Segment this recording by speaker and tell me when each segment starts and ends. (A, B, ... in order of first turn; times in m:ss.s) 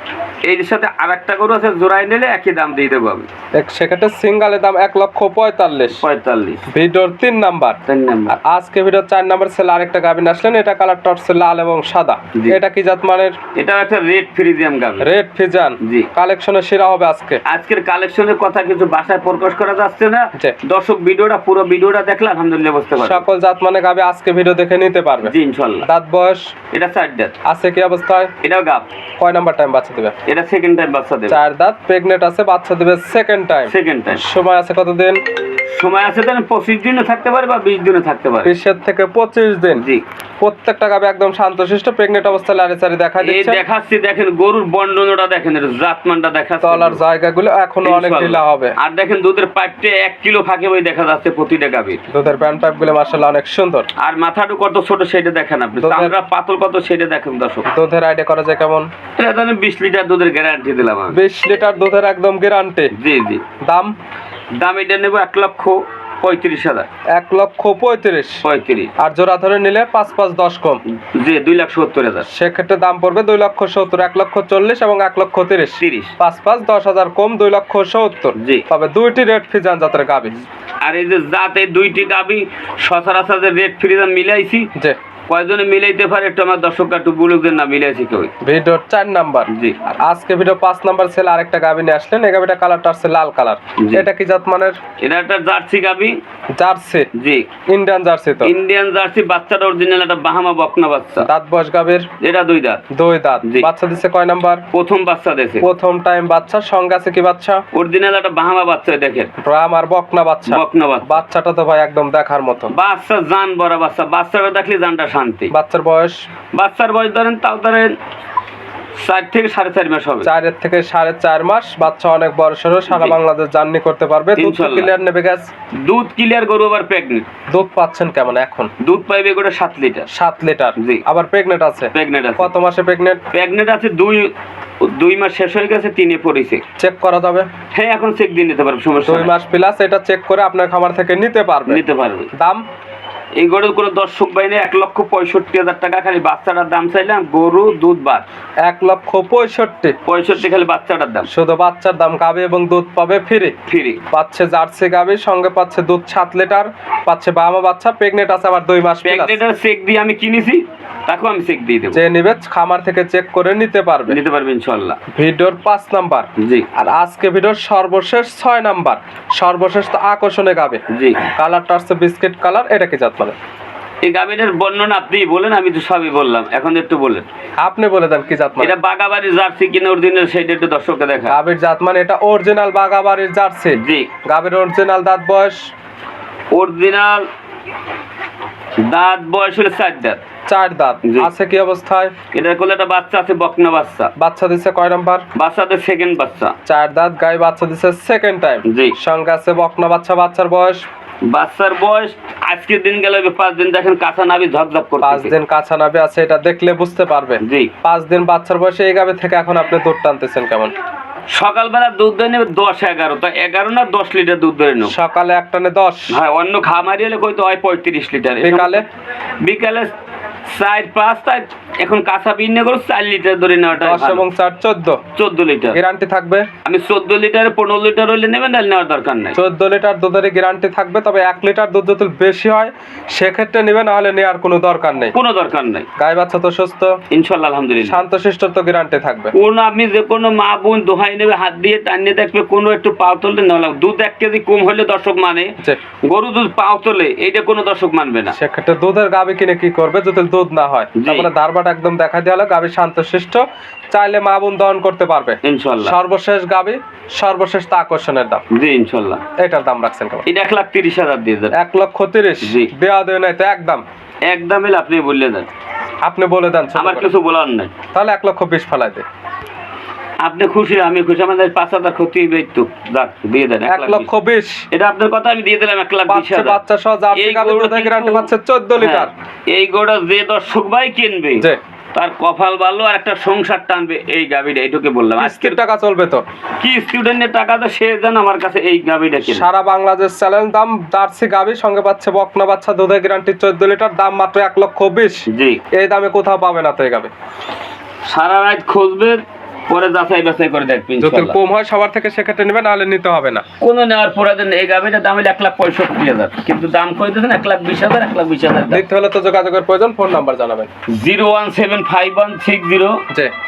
0:00.4-0:03.3 A
0:03.5-0:06.0 B
0:06.0-0:06.6 A
0:06.7-0:07.8 B
0:07.8-0:08.3 A
0:08.3-0:13.4 B
0:13.5-0:15.1 A
0:15.0-0:17.4 B
0:15.8-0:16.1 A
0:17.4-0:23.2 A
0:23.0-0:26.5 B
0:25.2-0:25.9 A
0:26.7-0:27.3 A
0:27.4-0:28.3 B
0:28.4-0:28.9 A
0:29.2-0:30.1 B
0:30.2-0:31.4 A
0:31.3-0:35.2 B
0:33.7-0:34.2 A
0:35.7-0:38.5 A
0:38.4-0:39.8 B
0:39.8-0:40.0 A
0:40.4-0:43.6 B
0:43.2-0:47.0 A
0:46.6-0:48.7 B
0:47.8-0:52.0 A
0:52.1-0:53.9 B
0:54.0-0:57.7 A
0:55.8-0:56.1 B
0:57.7-0:58.9 B
0:59.2-1:01.2 A
1:01.1-1:02.9 B
1:02.9-1:03.4 A
1:03.6-1:03.9 B
1:04.6-1:06.9 A
1:07.1-1:08.4 B
1:08.4-1:08.9 A
1:09.0-1:10.8 B
1:10.9-1:12.3 A
1:12.3-1:20.3 B
1:15.8-1:16.1 A
1:18.4-1:18.6 A
1:20.8-1:24.7 A
1:25.3-1:28.3 A
1:28.4-1:34.8 B
1:29.5-1:29.8 A
1:33.8-1:34.0 A
1:35.0-1:36.2 A
1:36.6-1:37.1 B
1:37.1-1:37.5 A
1:37.7-1:38.5 B
1:38.4-1:41.3 A
1:41.2-1:42.1 B
1:42.2-1:42.8 A
1:42.9-1:44.6 B
1:44.7-1:45.7 A
1:45.6-1:47.6 B
1:47.7-1:49.3 A
1:49.4-1:52.7 B
1:50.4-1:51.2 A
1:52.7-1:55.5 A
1:55.5-1:56.2 B
1:56.5-1:58.0 A
1:59.0-2:00.3 A
2:00.2-2:05.5 B
2:02.9-2:03.2 A
2:04.4-2:04.9 A
2:05.7-2:07.3 A
2:07.5-2:08.7 B
2:08.8-2:10.1 A
2:10.1-2:13.2 B
2:10.8-2:11.0 A
2:11.9-2:12.5 A
2:13.3-2:16.6 A
2:16.8-2:17.5 B
2:17.7-2:19.3 A
2:19.0-2:21.8 B
2:21.7-2:22.3 A
2:22.4-2:22.6 B
2:23.4-2:28.2 A
2:28.6-2:30.0 B
2:30.1-2:31.3 A
2:31.3-2:33.5 B
2:33.7-2:34.0 A
2:34.1-2:39.4 B
2:39.0-2:42.0 A
2:41.9-2:44.2 B
2:44.1-2:45.0 A
2:45.1-2:50.8 B
2:46.4-2:46.6 A
2:50.9-2:51.3 A
2:51.3-2:53.3 B
2:54.0-2:57.3 A
2:57.6-2:58.7 B
2:58.6-3:01.4 A
3:01.3-3:05.6 B
3:03.7-3:04.1 A
3:06.5-3:07.2 A
3:08.8-3:10.2 A
3:10.5-3:12.1 B
3:11.0-3:11.3 A
3:12.3-3:14.1 A
3:14.2-3:15.2 B
3:15.3-3:16.5 A
3:16.6-3:20.8 B
3:18.6-3:19.0 A
3:21.2-3:25.3 A
3:25.0-3:30.7 B
3:27.4-3:27.7 A
3:31.3-3:34.9 A
3:34.9-3:36.2 B
3:36.1-3:38.8 A
3:38.4-3:38.8 B
3:39.4-3:39.9 A
3:40.5-3:44.2 A
3:43.7-3:45.0 B
3:45.1-3:45.8 A
3:45.7-3:46.4 B
3:46.6-3:49.4 A
3:49.3-3:55.1 B
3:55.1-3:55.9 A
3:56.0-3:57.0 B
3:57.1-3:58.0 A
3:57.8-3:59.3 B
3:59.3-4:05.5 A
4:06.0-4:08.4 A
4:08.3-4:18.4 B
4:11.0-4:11.3 A
4:15.4-4:16.0 A
4:18.5-4:19.2 A
4:19.4-4:20.2 B
4:20.2-4:21.5 A
4:21.5-4:23.8 B
4:22.4-4:22.7 A
4:24.2-4:25.5 A
4:26.0-4:27.1 B
4:26.8-4:27.7 A
4:27.9-4:29.0 B
4:30.2-4:34.1 A
4:33.7-4:34.6 B
4:34.7-4:36.6 A
4:36.1-4:39.1 B
4:37.1-4:45.6 A
4:45.2-4:46.2 B
4:46.6-4:49.4 A
4:49.2-4:57.1 B
4:55.3-4:55.6 A
4:58.0-5:01.4 A
5:01.0-5:03.4 B
5:03.6-5:08.8 A
5:08.7-5:10.7 B
5:10.9-5:13.0 A